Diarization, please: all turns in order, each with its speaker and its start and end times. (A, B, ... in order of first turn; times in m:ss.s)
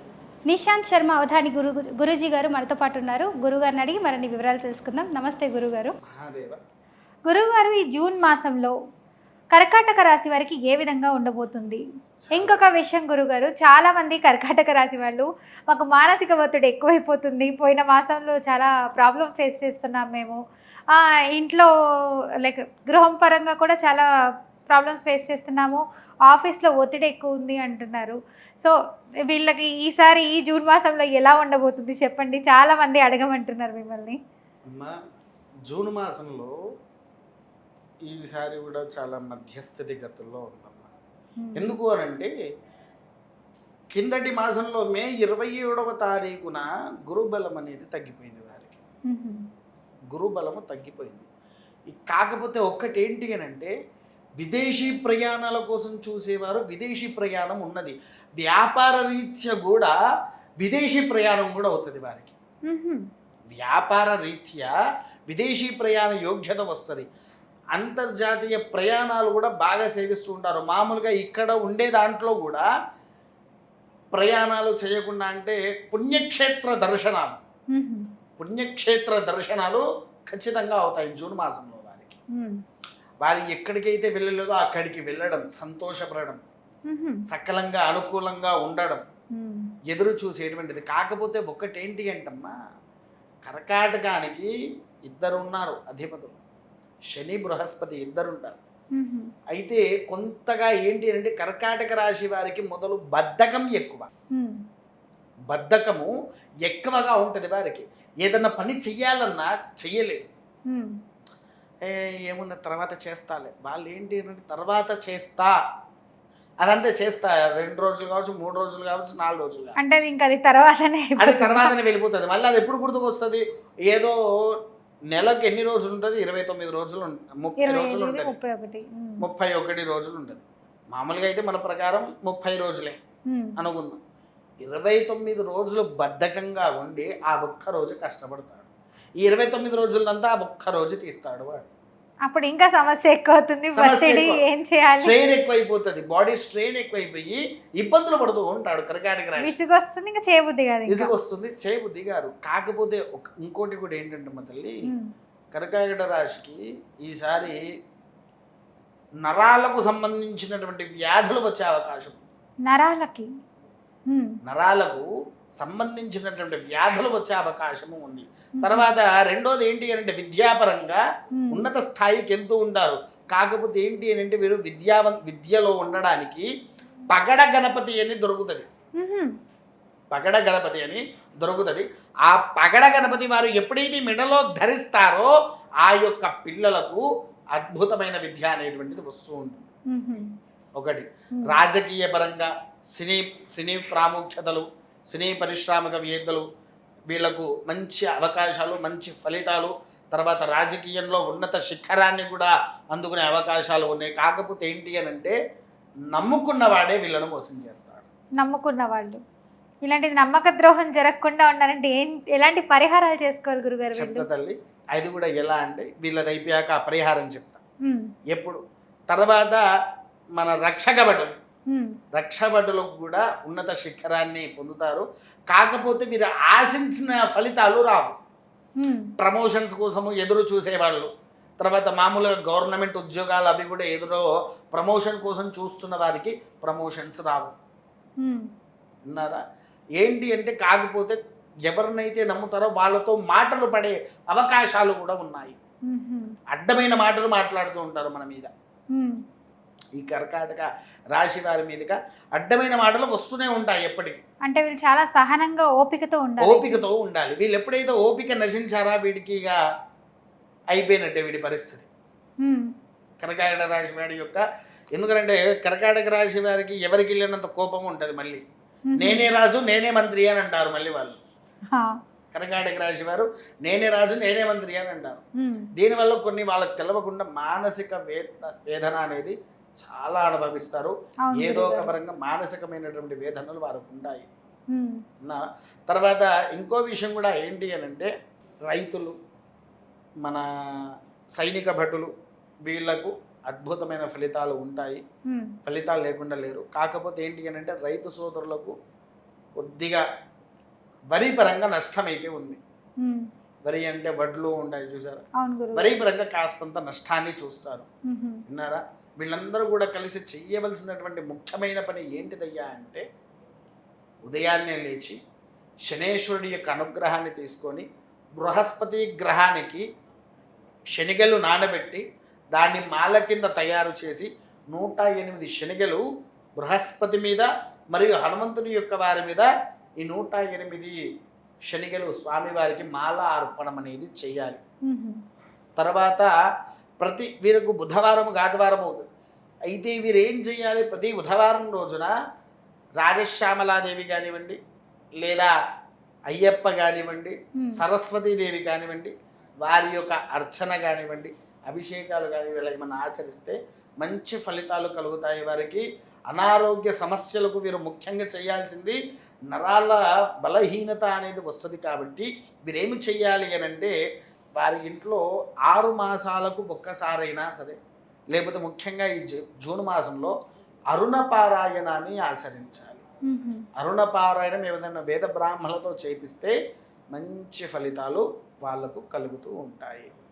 0:00.5-0:05.9 A
0:06.1-0:06.6 B
0:07.3-0:08.7 A
0:09.5-0:11.8 A
0:12.2-0:12.6 B
0:12.3-0:20.4 A
0:20.9-0:21.7 A
0:22.4-0:24.0 A
0:24.7-0:28.7 A
0:29.3-0:34.2 A
0:35.7-0:36.5 B
0:38.1-0:40.9 B
0:41.4-0:41.8 A
0:41.6-0:42.3 B
0:43.9-0:48.8 B
0:49.1-0:49.4 A
0:50.1-0:51.3 B
0:51.9-0:53.7 B
0:54.4-0:59.9 B
1:00.6-1:02.4 B
1:02.7-1:03.0 A
1:03.5-1:04.7 B
1:05.3-1:07.1 B
1:07.8-1:12.6 B
1:14.1-1:17.4 B
1:17.7-1:18.0 A
1:18.4-1:22.2 B
1:22.3-1:22.6 A
1:23.2-1:26.4 B
1:26.9-1:27.2 A
1:27.3-1:29.0 B
1:29.3-1:29.7 A
1:29.9-1:32.5 B
1:33.4-1:34.5 B
1:35.0-1:36.4 B
1:37.1-1:38.6 B
1:38.9-1:39.3 A
1:39.5-1:44.1 B
1:44.3-1:44.6 A
1:45.5-1:46.1 B
1:46.6-1:50.2 B
1:51.8-1:55.5 B
1:56.6-1:59.7 B
1:59.8-2:01.7 A
2:01.2-2:04.6 B
2:05.1-2:08.4 B
2:07.6-2:09.2 A
2:09.2-2:13.0 B
2:13.3-2:13.6 A
2:13.6-2:14.0 B
2:14.6-2:18.7 B
2:19.2-2:21.7 B
2:22.3-2:25.2 A
2:23.8-2:29.6 B
2:29.4-2:31.1 A
2:30.9-2:34.8 B
2:35.5-2:37.6 B
2:39.2-2:42.2 B
2:42.7-2:43.3 A
2:44.1-2:44.4 A
2:44.4-2:45.1 B
2:45.6-2:51.0 B
2:48.6-2:48.9 A
2:51.4-2:51.7 A
2:51.5-2:56.5 B
2:57.1-2:58.7 B
2:59.0-2:59.3 A
3:00.1-3:05.3 B
3:05.8-3:09.6 B
3:09.9-3:10.2 A
3:10.8-3:16.4 B
3:17.1-3:25.4 B
3:26.1-3:28.0 B
3:28.4-3:29.2 A
3:29.8-3:34.2 A
3:33.9-3:37.6 B
3:38.3-3:39.6 B
3:40.4-3:41.4 B
3:42.2-3:48.2 B
3:48.8-3:49.1 A
3:49.2-3:51.1 B
3:51.6-3:57.5 B
3:59.1-3:59.4 B
4:00.0-4:05.6 B
4:05.9-4:06.3 A
4:06.5-4:08.5 B
4:10.0-4:14.2 B
4:14.4-4:16.8 A
4:16.4-4:19.6 B
4:20.7-4:21.9 B
4:23.2-4:24.4 B
4:24.9-4:28.4 B
4:28.9-4:29.3 A
4:29.0-4:31.2 B
4:32.3-4:35.2 B
4:35.4-4:35.7 A
4:35.8-4:44.3 B
4:41.2-4:41.9 A
4:44.7-4:45.0 A
4:45.2-4:48.1 B
4:48.6-4:49.1 B
4:51.4-4:52.1 B
4:52.7-4:55.0 B
4:55.6-4:58.8 B
4:59.6-5:00.0 B
5:01.1-5:02.6 B
5:03.6-5:05.2 B
5:05.4-5:05.9 A
5:05.7-5:07.9 B
5:08.1-5:08.4 A
5:08.5-5:13.0 B
5:14.2-5:15.2 B
5:15.9-5:17.8 B
5:18.4-5:19.8 B
5:20.9-5:22.0 B
5:22.5-5:26.0 B
5:26.6-5:29.5 B
5:30.0-5:31.0 B
5:31.7-5:34.6 B
5:34.9-5:35.2 A
5:35.8-5:36.3 B
5:37.0-5:39.0 B
5:39.7-5:42.1 B
5:43.0-5:44.6 B
5:45.2-5:45.5 B
5:46.3-5:59.0 B
5:47.6-5:47.8 A
5:59.5-6:03.9 B
6:04.6-6:07.8 B
6:08.3-6:10.3 B
6:10.9-6:13.0 B
6:13.3-6:13.6 A
6:13.8-6:16.5 B
6:17.1-6:20.1 B